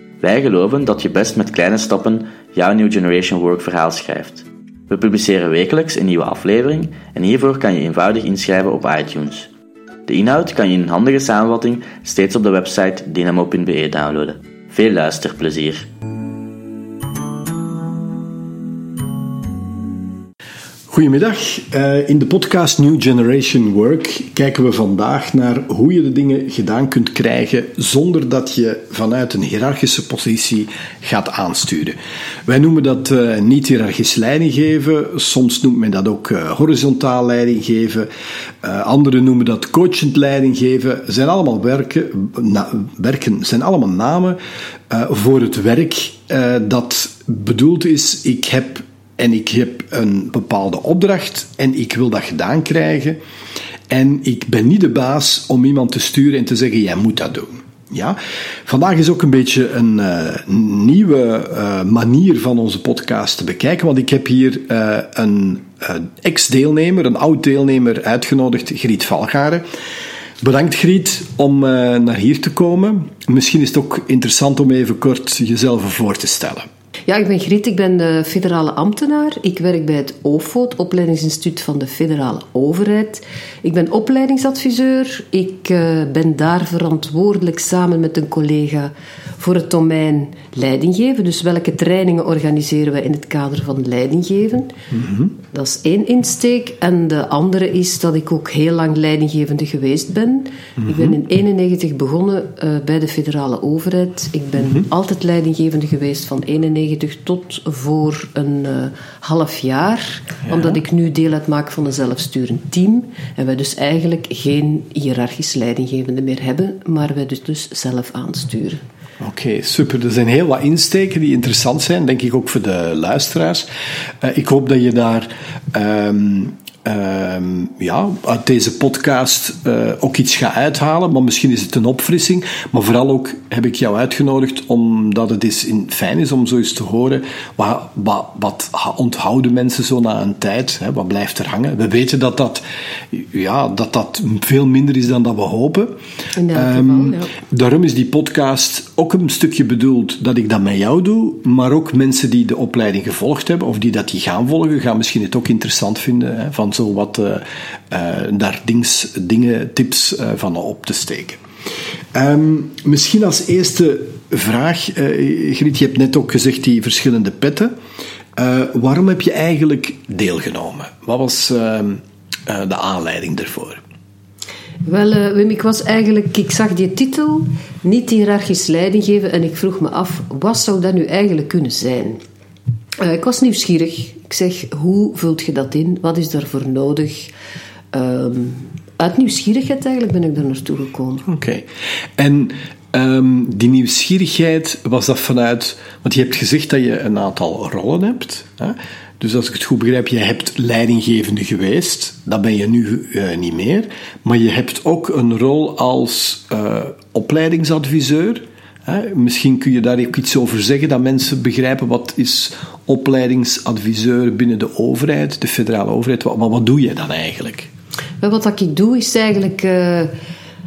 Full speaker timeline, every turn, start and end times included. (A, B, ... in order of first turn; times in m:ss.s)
0:00.2-0:09.5 A
0:10.1-0:15.9 A
0:20.9-0:38.1 B
0:38.6-0:44.4 B
0:44.9-0:53.2 B
0:53.9-1:09.6 B
1:10.4-1:16.7 B
1:17.1-1:34.8 C
1:34.9-1:35.3 B
1:35.5-1:58.8 C
1:40.8-1:41.1 B
1:50.5-1:50.7 B
1:59.2-2:03.7 B
2:04.2-2:26.0 B
2:26.3-2:27.3 C
2:26.5-2:41.4 B
2:42.1-2:47.7 B
2:48.3-2:53.8 B
2:54.8-3:02.2 C
3:03.0-3:07.3 C
3:07.9-3:11.2 C
3:11.2-3:37.7 B
3:38.2-3:40.1 C